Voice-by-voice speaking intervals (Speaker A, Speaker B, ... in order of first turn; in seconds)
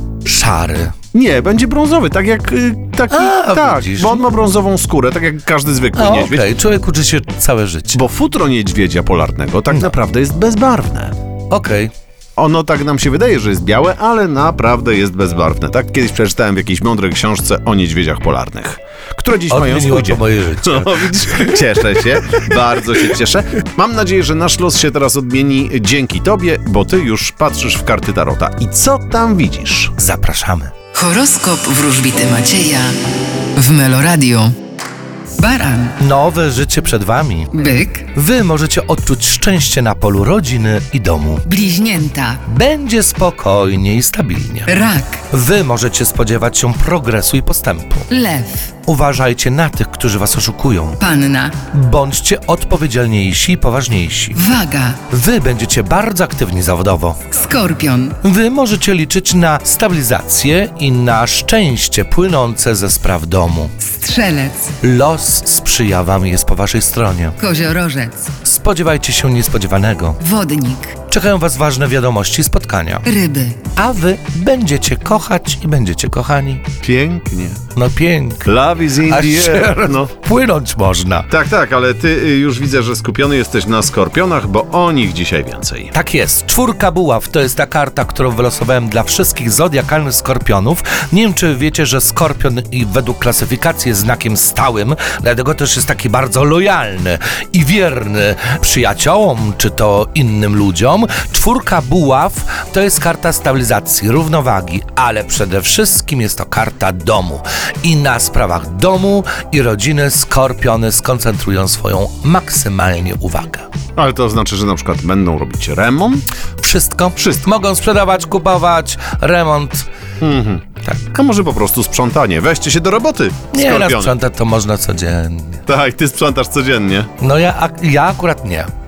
Speaker A: 0.2-1.0, 3.1-4.3, 6.0-8.0, 11.5-11.9, 19.5-22.5, 30.0-30.7, 36.0-41.5, 42.5-44.8, 45.3-48.1, 48.9-51.0, 51.7-54.4, 55.1-57.2, 58.2-63.7, 64.8-67.4, 68.5-70.2, 71.1-73.1, 73.7-76.7, 77.8-81.3, 85.9-113.7, 116.6-119.9, 120.8-121.1, 123.5-125.7, 127.2-128.7
Speaker B: 1.1-6.5, 7.9-11.1, 12.4-30.0, 76.8-77.6, 78.5-80.1, 81.3-85.9, 114.0-116.2, 117.2-117.5, 120.2-124.2, 125.7-127.1
Speaker C: 30.9-34.6, 35.4-36.0, 37.5-38.1, 41.5-42.4, 44.7-45.2, 48.1-48.8, 51.0-51.6, 54.3-55.0, 57.3-58.2, 63.8-64.8, 67.4-68.3, 70.2-71.0, 73.0-73.7